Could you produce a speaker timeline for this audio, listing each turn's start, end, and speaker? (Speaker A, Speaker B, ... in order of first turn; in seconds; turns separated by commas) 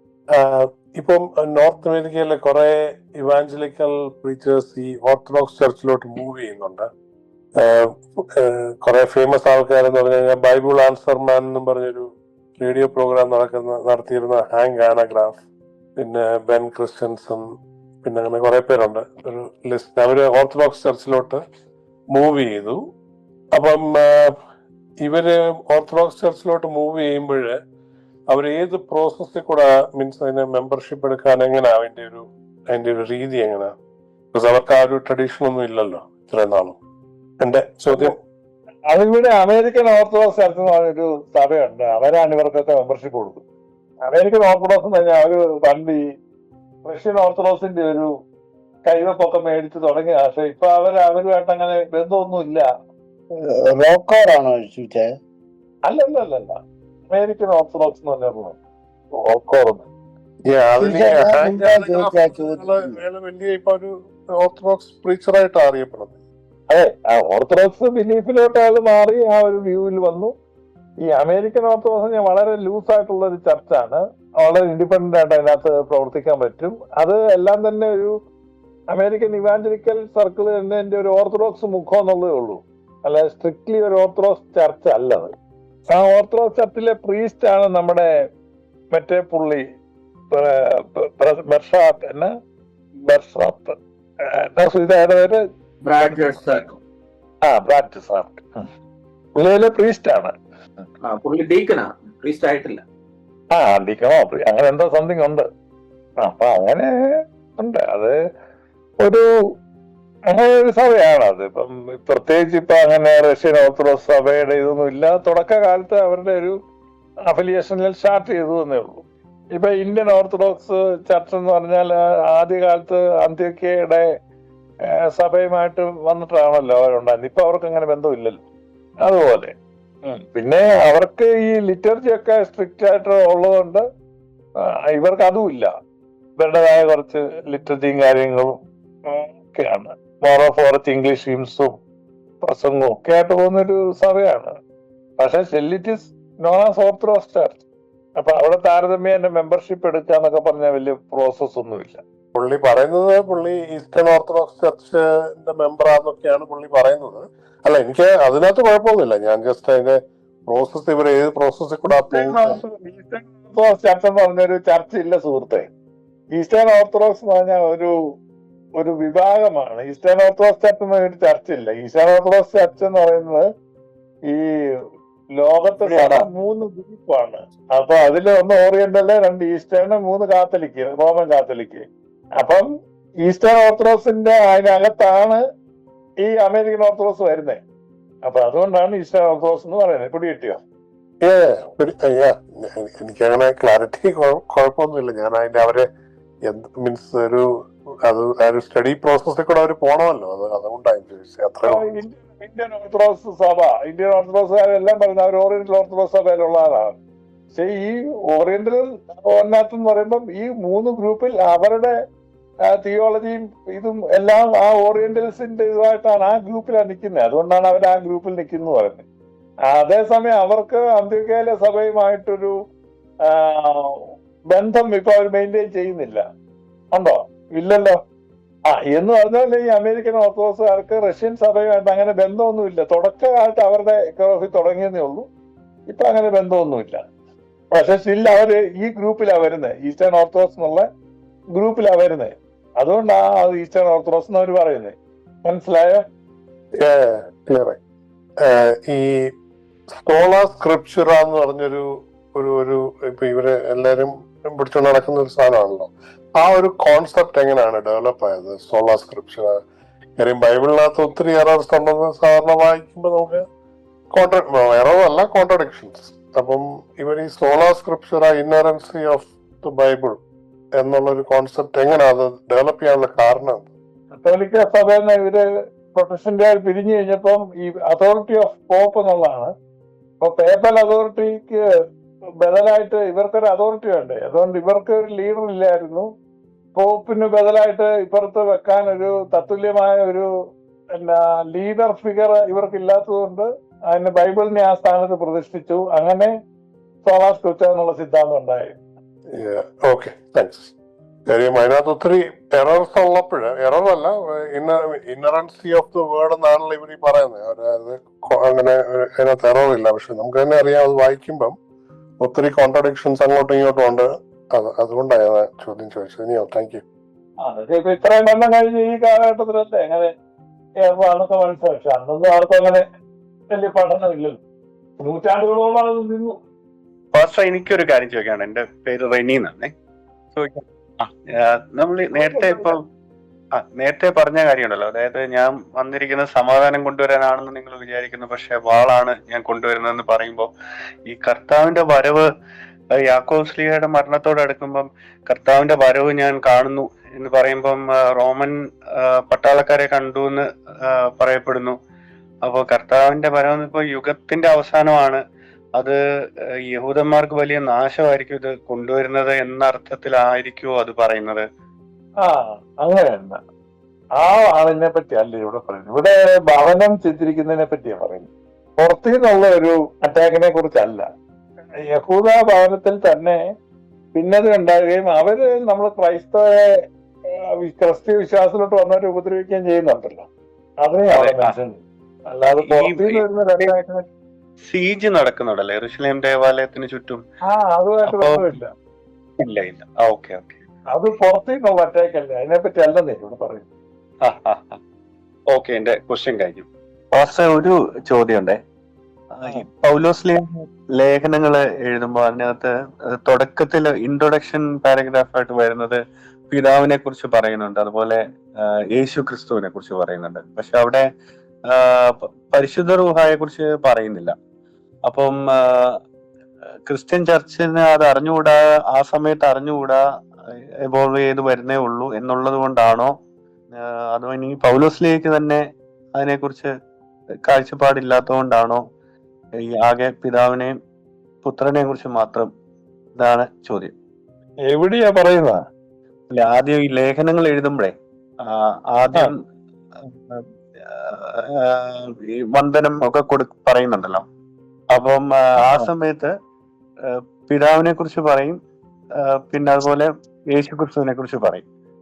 Speaker A: 0.3-6.9, Speaker A: 7.6-15.4, Speaker A: 16.0-17.4, Speaker A: 18.0-21.4, Speaker A: 22.1-22.8, Speaker A: 23.5-24.3, Speaker A: 25.0-27.6, Speaker A: 28.3-33.7, Speaker A: 34.3-36.8, Speaker A: 37.4-38.1, Speaker B: 38.9-43.4, Speaker B: 44.1-46.0, Speaker B: 46.8-48.1, Speaker B: 48.9-52.6, Speaker C: 53.5-55.1, Speaker B: 55.9-56.5, Speaker B: 57.1-58.5, Speaker B: 59.2-59.8, Speaker A: 60.5-66.1, Speaker C: 60.8-63.0, Speaker B: 66.7-70.3, Speaker B: 71.0-78.1, Speaker B: 78.9-85.3, Speaker B: 85.9-88.1, Speaker B: 88.9-89.6, Speaker B: 90.3-92.3, Speaker B: 93.1-93.7, Speaker B: 94.5-95.4, Speaker D: 95.8-96.8, Speaker B: 97.5-98.7, Speaker B: 99.4-100.3, Speaker D: 101.0-102.8, Speaker B: 103.5-105.4, Speaker B: 106.2-106.9, Speaker B: 107.6-108.2, Speaker B: 110.3-116.5, Speaker B: 117.3-119.0, Speaker B: 119.5-124.0, Speaker B: 125.0-128.4, Speaker B: 129.0-129.5, Speaker B: 130.1-133.8, Speaker B: 134.9-135.7, Speaker B: 136.4-141.7, Speaker B: 142.4-144.5, Speaker B: 145.2-147.6, Speaker B: 148.2-152.0, Speaker A: 152.3-162.6, Speaker B: 161.9-165.7, Speaker B: 166.3-167.9, Speaker B: 168.8-173.4, Speaker B: 175.4-181.8, Speaker D: 175.8-176.3, Speaker B: 182.4-182.6, Speaker B: 183.2-185.4, Speaker B: 186.2-187.6, Speaker B: 188.2-190.6, Speaker A: 191.2-195.9, Speaker A: 196.5-197.4, Speaker A: 198.1-201.9, Speaker B: 201.7-207.0, Speaker B: 207.5-211.9, Speaker B: 212.7-219.0, Speaker B: 219.7-222.5, Speaker B: 223.4-223.9, Speaker B: 224.5-226.2, Speaker B: 226.9-228.0, Speaker B: 228.7-235.2, Speaker B: 235.9-237.0, Speaker B: 237.7-240.8, Speaker B: 241.5-246.0, Speaker A: 246.8-247.8, Speaker A: 248.4-249.1, Speaker A: 250.0-259.5, Speaker A: 260.2-263.4, Speaker A: 264.1-270.2, Speaker A: 270.8-273.7, Speaker B: 274.1-275.4, Speaker B: 275.9-279.5, Speaker B: 280.2-281.6, Speaker B: 282.4-286.0, Speaker B: 286.7-290.3, Speaker B: 290.9-296.3, Speaker B: 297.0-298.8, Speaker A: 299.4-300.7, Speaker A: 301.3-311.5, Speaker A: 312.2-316.8, Speaker B: 317.4-320.1, Speaker B: 320.8-322.8, Speaker B: 323.5-324.4, Speaker B: 325.0-326.3, Speaker E: 327.1-329.7, Speaker E: 330.4-331.1, Speaker E: 331.8-332.8, Speaker B: 332.2-332.7, Speaker E: 333.6-340.5, Speaker E: 341.1-342.2, Speaker E: 343.1-351.7, Speaker E: 352.4-355.2, Speaker E: 356.7-361.4, Speaker B: 362.2-363.4, Speaker B: 364.2-368.3, Speaker B: 368.8-371.0, Speaker B: 371.9-373.4, Speaker B: 374.1-376.7, Speaker B: 377.6-380.3, Speaker B: 380.8-384.0, Speaker E: 381.1-381.5, Speaker E: 382.5-383.7, Speaker E: 384.6-387.2, Speaker B: 387.5-388.7, Speaker E: 388.1-388.4, Speaker E: 389.4-390.6, Speaker B: 390.9-393.6, Speaker E: 394.2-394.8, Speaker E: 395.5-398.6, Speaker E: 399.3-402.7, Speaker E: 403.2-408.2, Speaker E: 408.9-411.0, Speaker E: 411.7-414.3, Speaker E: 415.1-415.9, Speaker E: 416.9-420.0, Speaker E: 420.9-423.1, Speaker E: 423.8-425.6, Speaker E: 426.1-426.7, Speaker E: 427.5-428.8, Speaker E: 429.8-430.7, Speaker E: 431.4-432.5, Speaker E: 433.2-433.9, Speaker B: 434.7-435.6, Speaker E: 436.3-437.9, Speaker E: 438.4-439.4, Speaker E: 440.1-444.2, Speaker E: 444.9-446.3, Speaker B: 445.6-445.9, Speaker E: 447.0-448.6, Speaker E: 449.5-451.6